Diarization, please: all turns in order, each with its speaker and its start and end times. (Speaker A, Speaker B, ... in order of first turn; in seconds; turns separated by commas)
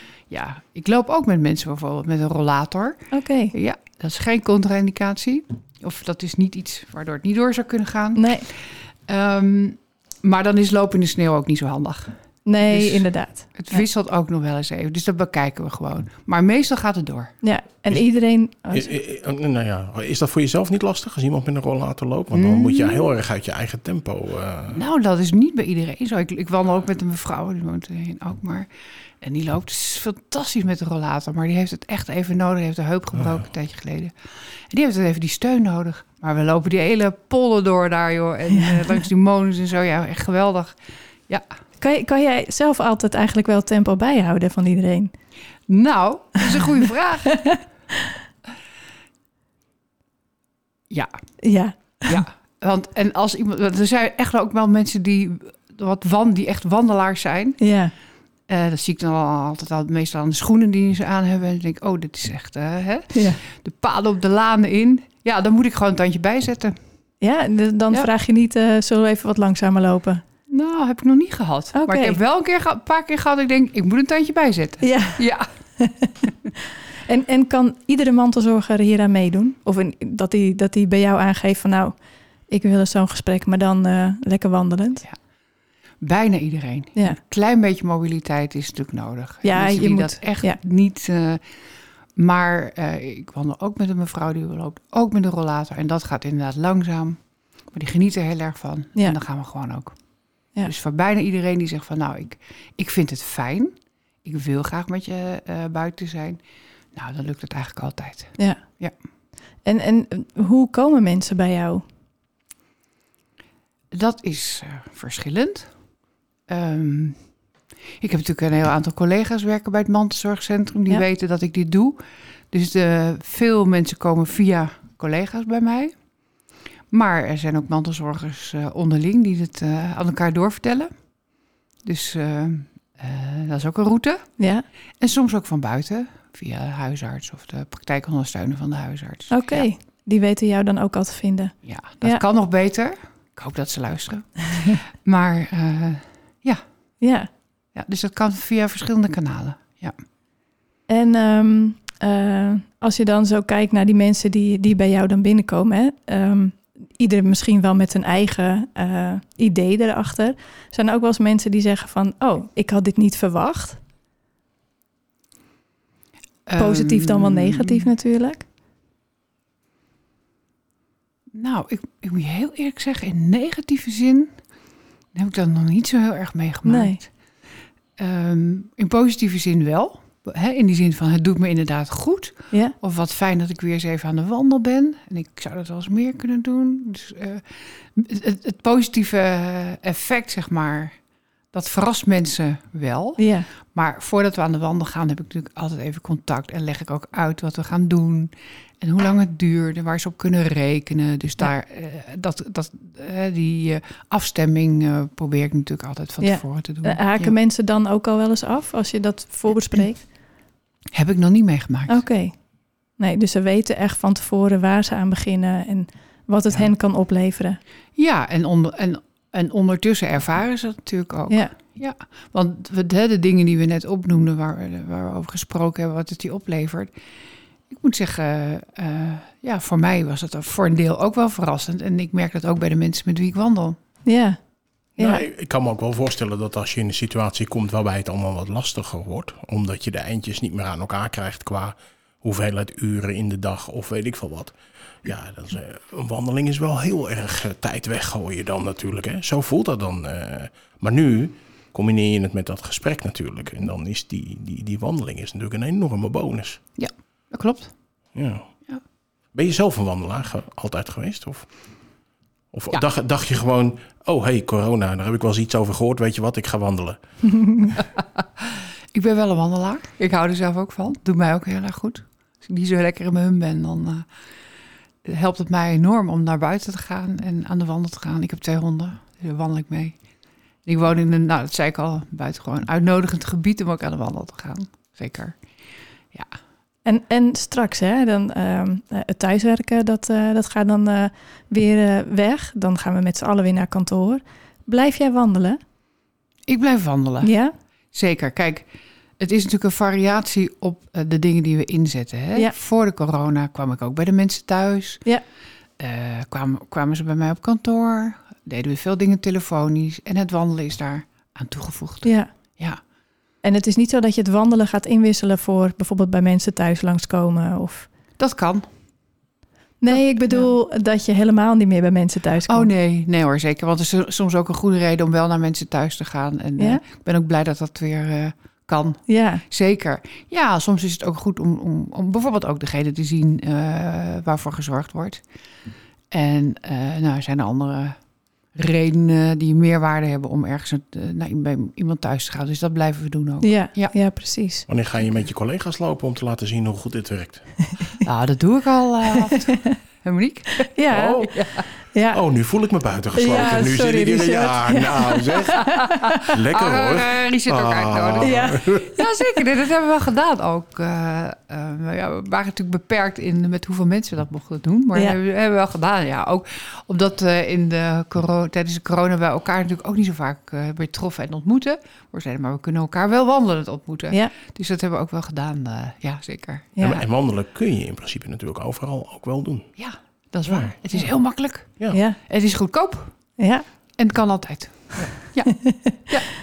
Speaker A: 0.3-17.3, Speaker B: 3.1-3.5, Speaker B: 8.2-8.4, Speaker B: 12.4-13.8, Speaker B: 17.4-18.9, Speaker C: 18.7-24.8, Speaker A: 22.3-23.1, Speaker A: 24.7-28.7, Speaker A: 29.2-34.1, Speaker A: 34.7-40.8, Speaker B: 41.8-45.1, Speaker A: 45.7-47.4, Speaker B: 47.3-48.1, Speaker B: 51.4-52.2, Speaker A: 52.1-57.6, Speaker B: 57.6-57.9, Speaker A: 58.5-66.8, Speaker B: 63.1-63.4, Speaker B: 67.2-70.2, Speaker A: 70.5-75.5, Speaker B: 71.7-72.2, Speaker B: 74.8-75.2, Speaker B: 75.8-76.3, Speaker B: 77.0-81.9, Speaker B: 82.5-85.0, Speaker A: 86.0-91.4, Speaker B: 89.4-90.6, Speaker A: 92.2-97.2, Speaker A: 97.7-100.0, Speaker A: 100.6-103.7, Speaker A: 104.2-106.4, Speaker A: 106.9-108.9, Speaker B: 109.6-111.8, Speaker A: 113.9-115.7, Speaker A: 116.5-117.2, Speaker A: 118.0-122.0, Speaker A: 122.5-125.9, Speaker A: 126.9-130.9, Speaker A: 131.8-134.3, Speaker B: 134.4-134.6, Speaker A: 135.0-139.7, Speaker B: 139.3-142.2, Speaker A: 141.6-146.6, Speaker B: 147.0-147.3, Speaker A: 147.7-149.9, Speaker B: 150.9-163.8, Speaker A: 166.5-167.9, Speaker B: 166.6-168.4, Speaker A: 171.3-174.3, Speaker A: 175.1-177.1, Speaker B: 176.7-177.0, Speaker A: 178.0-190.9, Speaker A: 191.5-207.3, Speaker B: 193.2-193.5, Speaker B: 206.2-210.1, Speaker A: 210.9-212.0, Speaker B: 211.9-212.3, Speaker B: 213.0-217.6, Speaker A: 218.0-226.9, Speaker A: 227.7-233.8, Speaker B: 234.1-234.4, Speaker B: 235.0-235.2, Speaker C: 235.0-256.6, Speaker A: 256.8-257.7, Speaker C: 258.1-258.5, Speaker C: 259.3-261.5, Speaker C: 262.5-267.0, Speaker A: 268.9-274.1, Speaker A: 275.0-279.9, Speaker A: 280.6-285.4, Speaker B: 286.8-295.6, Speaker A: 296.5-297.3, Speaker B: 297.2-297.5, Speaker A: 297.9-298.6, Speaker A: 299.2-305.1, Speaker A: 305.8-312.8, Speaker B: 312.0-312.3, Speaker B: 313.4-317.9, Speaker A: 318.2-318.6, Speaker B: 319.8-322.7, Speaker A: 319.9-320.5, Speaker A: 322.5-335.2, Speaker B: 329.1-329.4, Speaker A: 336.1-338.0, Speaker A: 338.5-343.9, Speaker B: 343.4-344.6, Speaker C: 344.7-347.5, Speaker A: 348.0-350.7, Speaker B: 349.4-349.7, Speaker B: 350.6-351.3, Speaker C: 350.9-351.4, Speaker A: 351.3-351.7, Speaker B: 351.9-352.2, Speaker C: 352.1-358.9, Speaker B: 353.1-356.2, Speaker A: 355.6-376.8, Speaker B: 358.2-358.8, Speaker B: 376.8-377.0, Speaker C: 376.8-379.7, Speaker A: 379.8-383.1, Speaker C: 380.4-381.1, Speaker B: 381.9-382.2, Speaker B: 383.4-383.6, Speaker A: 384.0-385.5, Speaker B: 385.4-386.1